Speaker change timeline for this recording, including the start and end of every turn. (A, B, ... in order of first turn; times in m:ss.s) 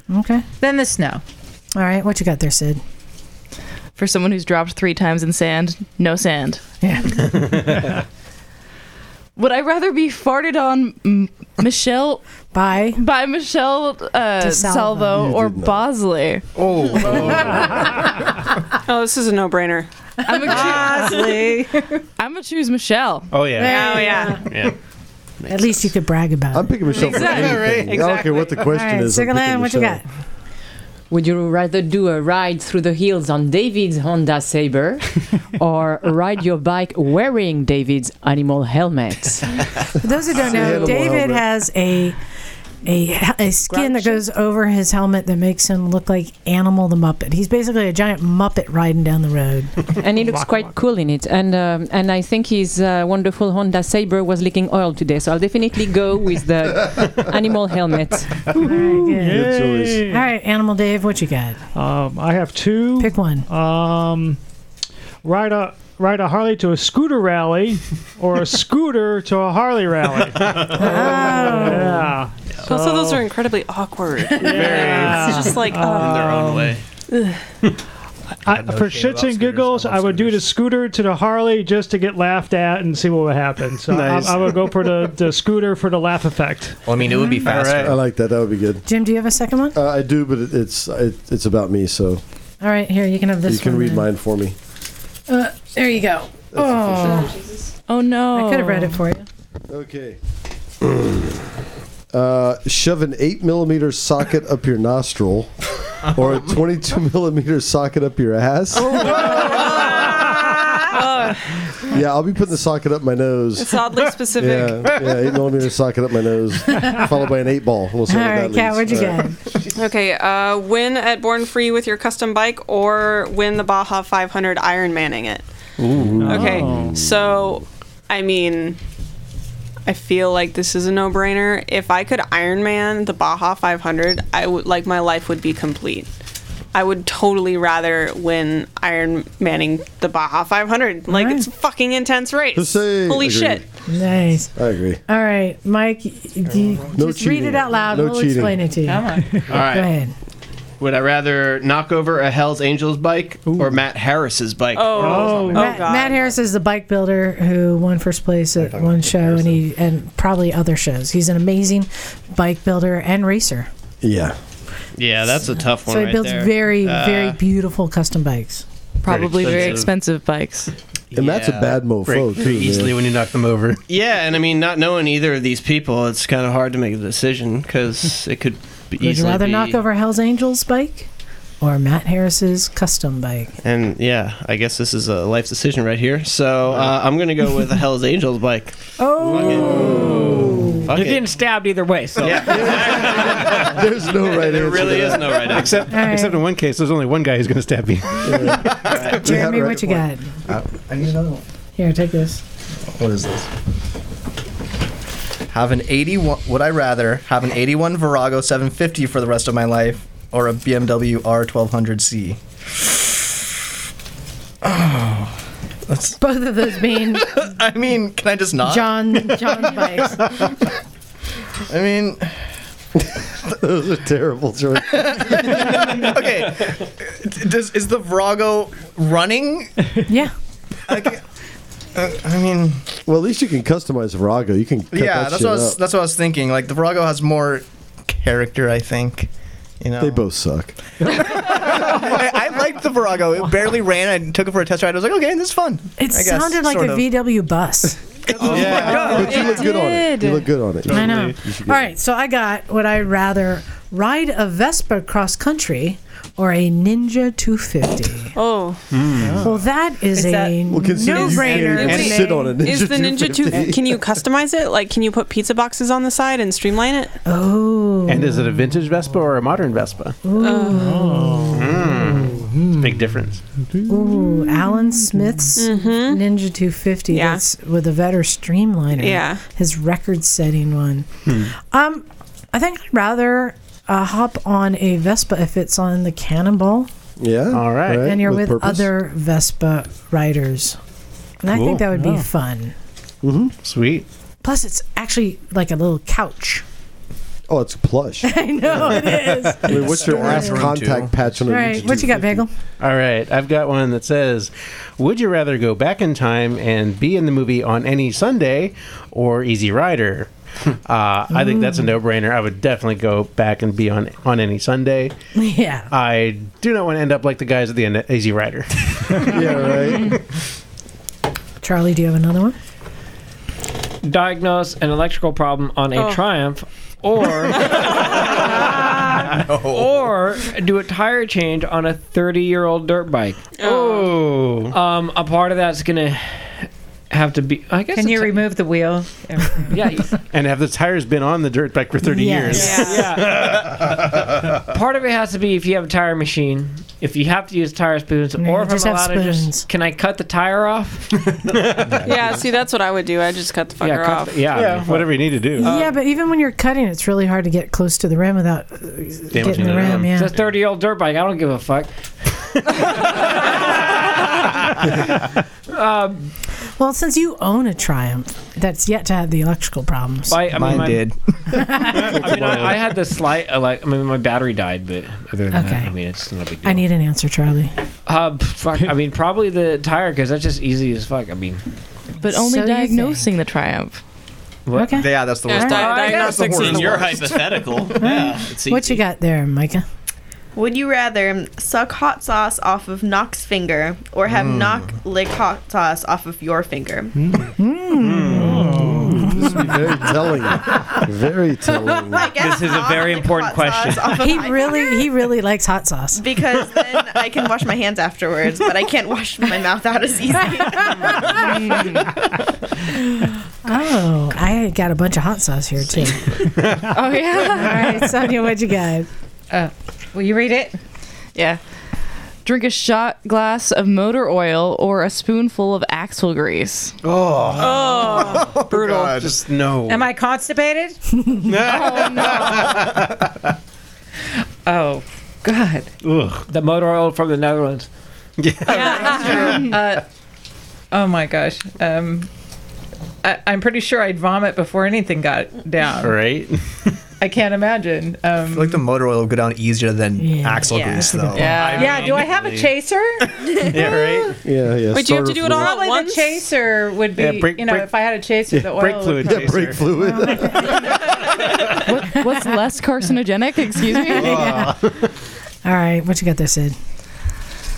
0:00.1-0:00.4 A
0:00.6-0:01.2 B
0:01.7-0:02.8 A
0:04.0-0:06.6 C
0:06.8-0:07.7 A
0:09.4-0:12.2 C
0:12.5-0:13.0 A
0:12.9-0:16.4 C
0:14.4-0:15.3 A
0:15.1-0:15.8 D
0:16.6-0:17.7 E
0:18.9-0:19.9 F
0:20.3-0:21.2 C
0:20.5-0:21.9 B
0:22.2-0:23.4 C
0:23.3-0:24.7 E
0:23.6-0:24.5 A
0:23.6-0:24.5 F
0:25.5-0:27.4 A
0:26.5-0:30.0 D
0:27.0-0:28.7 F
0:27.3-0:28.0 E
0:28.7-0:30.0 A
0:31.1-0:39.4 G
0:40.0-0:42.2 A
0:40.3-0:41.4 D
0:42.8-0:49.8 A
0:43.7-0:44.1 B
0:49.9-0:58.5 G
0:50.3-0:50.6 H
0:58.5-1:00.2 H
0:58.6-1:01.6 A
0:59.2-1:00.1 D
1:01.7-1:04.4 H
1:03.0-1:03.5 A
1:05.2-1:13.2 H
1:10.5-1:10.8 E
1:10.7-1:12.0 A
1:12.6-1:16.7 F
1:14.4-1:16.1 H
1:14.8-1:15.4 E
1:16.0-1:16.8 I
1:18.4-1:26.8 H
1:18.6-1:20.2 J
1:23.9-1:25.0 E
1:26.8-1:28.0 J
1:27.5-1:28.0 E
1:27.7-1:28.8 D
1:28.9-1:29.8 A
1:29.8-1:32.2 D
1:32.6-1:34.1 A
1:33.5-1:34.6 D
1:35.3-1:37.4 A
1:36.5-1:37.3 D
1:37.9-1:39.0 C
1:38.3-1:39.3 A
1:39.7-1:40.2 D
1:40.8-1:41.1 D
1:42.1-1:45.5 D
1:46.0-1:49.8 D
1:48.8-1:51.8 F
1:51.9-1:59.3 D
1:53.6-1:55.0 F
1:56.7-1:57.0 A
1:58.1-1:59.4 A
1:59.7-2:05.4 F
2:05.8-2:06.4 E
2:06.0-2:06.9 D
2:06.2-2:07.0 H
2:06.2-2:08.8 F
2:09.9-2:16.1 F
2:16.7-2:23.6 F
2:21.1-2:21.5 A
2:22.6-2:23.6 D
2:23.9-2:24.6 A
2:24.6-2:25.0 D
2:25.1-2:30.1 A
2:26.9-2:28.6 D
2:28.9-2:29.4 B
2:29.5-2:30.0 I
2:30.8-2:35.6 I
2:34.7-2:36.4 F
2:35.0-2:35.8 H
2:35.5-2:43.7 A
2:44.0-2:44.4 D
2:45.0-2:47.4 I
2:45.9-2:48.7 A
2:49.0-2:50.7 C
2:49.0-2:49.9 E
2:49.5-2:49.8 I
2:51.1-2:51.8 I
2:51.2-2:53.0 D
2:52.0-2:53.8 E
2:53.9-2:59.8 I
2:59.0-3:01.1 A
3:01.6-3:03.6 A
3:03.6-3:11.3 I
3:09.0-3:10.8 A
3:10.9-3:12.8 K
3:12.2-3:15.9 I
3:12.5-3:15.6 D
3:15.5-3:18.8 E
3:15.9-3:16.5 A
3:18.2-3:20.1 D
3:18.9-3:19.2 I
3:19.1-3:20.4 A
3:20.5-3:21.4 J
3:21.8-3:22.4 A
3:22.9-3:23.5 J
3:25.5-3:32.4 J
3:34.6-3:35.3 J
3:35.9-3:36.2 J
3:36.2-3:37.4 A
3:36.8-3:40.2 J
3:38.6-3:40.5 A
3:41.7-3:42.4 J
3:43.5-3:45.6 D
3:44.9-3:49.7 J
3:50.1-3:50.3 A
3:50.9-3:51.2 J
3:52.0-3:52.9 J
3:53.0-3:55.8 D
3:54.9-3:59.3 J
3:59.8-4:00.2 J
4:00.0-4:00.8 D
4:01.0-4:07.0 J
4:06.0-4:08.0 A
4:08.4-4:11.9 D
4:08.4-4:09.0 J
4:08.5-4:09.0 E
4:08.6-4:18.4 A
4:10.9-4:11.4 E
4:18.3-4:18.8 F
4:18.9-4:19.5 E
4:19.2-4:19.5 H
4:19.4-4:22.6 A
4:20.2-4:20.6 B
4:20.7-4:24.1 D
4:21.1-4:27.1 F
4:21.8-4:22.2 E
4:27.3-4:28.6 A
4:28.1-4:30.2 E
4:30.2-4:32.1 A
4:30.4-4:30.9 F
4:30.7-4:33.0 H
4:31.5-4:33.4 E
4:33.8-4:35.5 H
4:33.9-4:46.9 A
4:35.6-4:36.2 F
4:37.1-4:37.4 F
4:39.0-4:39.4 F
4:47.2-4:48.9 D
4:47.5-4:48.1 E
4:47.9-4:50.8 A
4:51.4-4:52.7 A
4:51.5-4:51.8 E
4:51.9-4:52.3 H
4:53.2-4:53.5 D
4:53.6-4:54.0 E
4:54.4-4:56.6 A
4:57.5-5:02.4 D
4:58.2-5:00.7 A
4:59.7-5:01.4 J
5:01.5-5:02.5 A
5:02.8-5:10.3 E
5:10.8-5:15.1 E
5:11.3-5:11.9 A
5:15.4-5:15.9 A
5:15.9-5:20.0 E
5:19.1-5:20.2 D
5:21.6-5:22.6 A
5:24.0-5:38.5 K
5:25.9-5:26.3 F
5:29.4-5:29.9 J
5:33.6-5:34.2 F
5:34.0-5:34.7 E
5:38.0-5:39.9 B
5:39.7-5:40.1 K
5:40.3-5:43.9 E
5:42.0-5:42.9 A
5:42.5-5:43.1 F
5:42.7-5:43.8 K
5:44.6-5:52.3 K
5:48.4-5:49.7 A
5:51.5-5:52.0 E
5:52.0-5:54.5 F
5:53.8-5:55.9 K
5:54.5-5:55.7 E
5:55.6-6:00.3 A
5:59.3-6:00.5 E
6:00.1-6:01.9 K
6:03.0-6:04.3 K
6:05.7-6:06.3 K
6:06.8-6:10.4 A
6:10.3-6:11.1 K
6:10.5-6:11.2 J
6:11.5-6:12.2 A
6:11.9-6:16.8 K
6:12.3-6:12.6 E
6:15.5-6:15.9 A
6:16.6-6:17.7 A
6:18.1-6:21.6 K
6:22.2-6:23.3 A
6:22.2-6:24.0 C
6:24.7-6:26.8 K
6:24.8-6:25.9 A
6:24.9-6:27.9 J
6:25.4-6:27.1 F
6:26.6-6:29.0 I
6:28.0-6:29.9 A
6:30.6-6:37.1 L
6:34.3-6:35.0 J
6:37.6-6:39.8 A
6:38.0-6:39.0 E
6:38.4-6:39.6 H
6:39.4-6:42.3 D
6:42.1-6:45.1 L
6:42.3-6:44.2 K
6:44.1-6:46.2 A
6:46.1-6:51.4 L
6:50.8-6:51.4 A
6:51.4-6:52.0 C
6:52.8-6:56.4 A
6:56.8-6:58.1 C
6:57.4-6:59.1 A
6:59.5-7:00.8 B
7:01.4-7:01.6 C
7:02.4-7:07.0 C
7:07.0-7:10.1 E
7:07.6-7:08.6 F
7:08.1-7:09.4 J
7:09.9-7:11.0 B
7:11.5-7:13.2 E
7:11.6-7:12.7 C
7:14.6-7:15.9 B
7:16.0-7:16.5 E
7:16.5-7:17.9 K
7:18.4-7:19.8 E
7:18.7-7:20.0 B
7:18.7-7:19.7 F
7:20.9-7:22.3 B
7:23.2-7:26.1 B
7:26.0-7:26.9 E
7:27.2-7:28.8 B
7:28.5-7:32.0 J
7:30.2-7:31.6 A
7:30.7-7:31.1 L
7:31.3-7:32.0 C
7:31.7-7:32.7 E
7:31.7-7:33.3 B
7:33.6-7:34.4 E
7:34.4-7:35.7 D
7:34.9-7:36.5 F
7:35.6-7:39.8 B
7:37.2-7:37.9 E
7:38.6-7:39.8 E
7:39.2-7:40.9 D
7:40.0-7:40.8 A
7:41.8-7:44.4 C
7:43.8-7:44.8 A
7:44.1-7:44.8 E
7:45.6-7:46.8 A